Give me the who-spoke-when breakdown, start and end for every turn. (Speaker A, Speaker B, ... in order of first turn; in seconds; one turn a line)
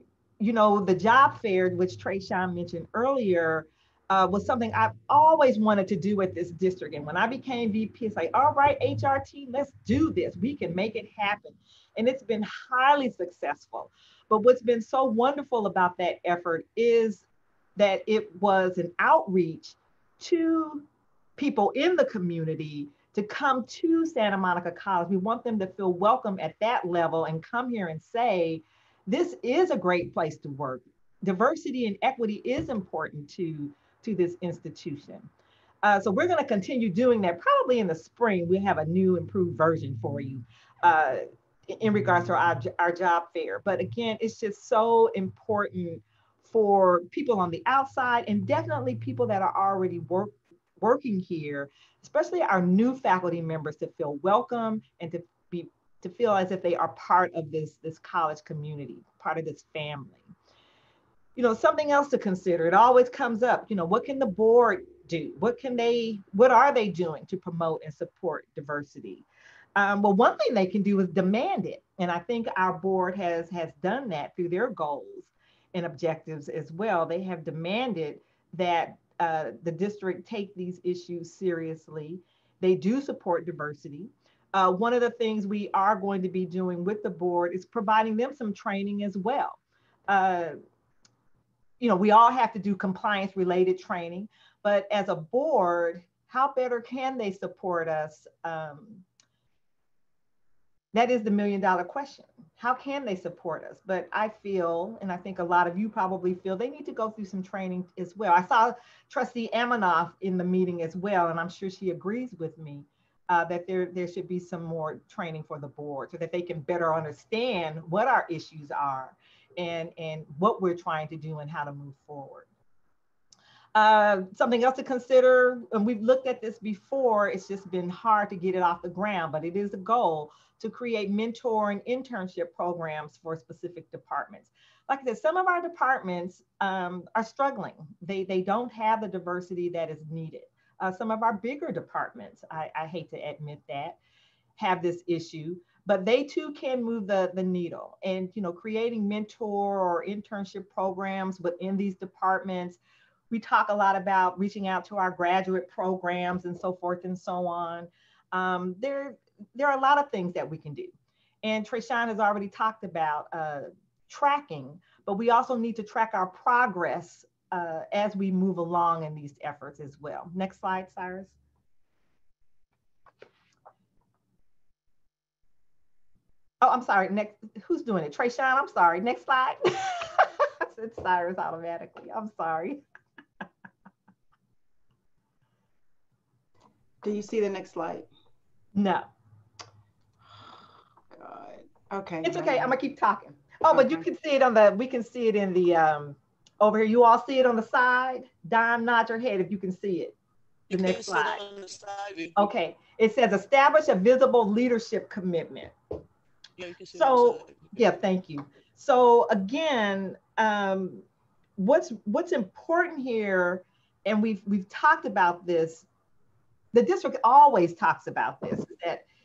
Speaker A: 0.4-17.2
Speaker A: 17.8-20.8
Speaker A: 21.4-35.3
Speaker A: 35.8-60.3
Speaker A: 61.4-69.2
Speaker A: 69.8-90.5
Speaker A: 91.8-99.0
Speaker A: 100.9-122.5
Speaker A: 123.7-144.0
Speaker A: 144.6-152.8
Speaker A: 153.3-171.3
Speaker A: 176.6-182.8
Speaker B: 187.0-188.1
Speaker A: 188.7-189.1
Speaker B: 191.1-192.7
Speaker A: 192.2-200.1
Speaker B: 193.7-194.0
Speaker C: 200.7-202.5
Speaker A: 200.7-201.4
Speaker A: 202.3-205.7
Speaker C: 206.6-207.7
Speaker A: 206.9-211.0
Speaker A: 211.6-215.8
Speaker A: 216.7-219.0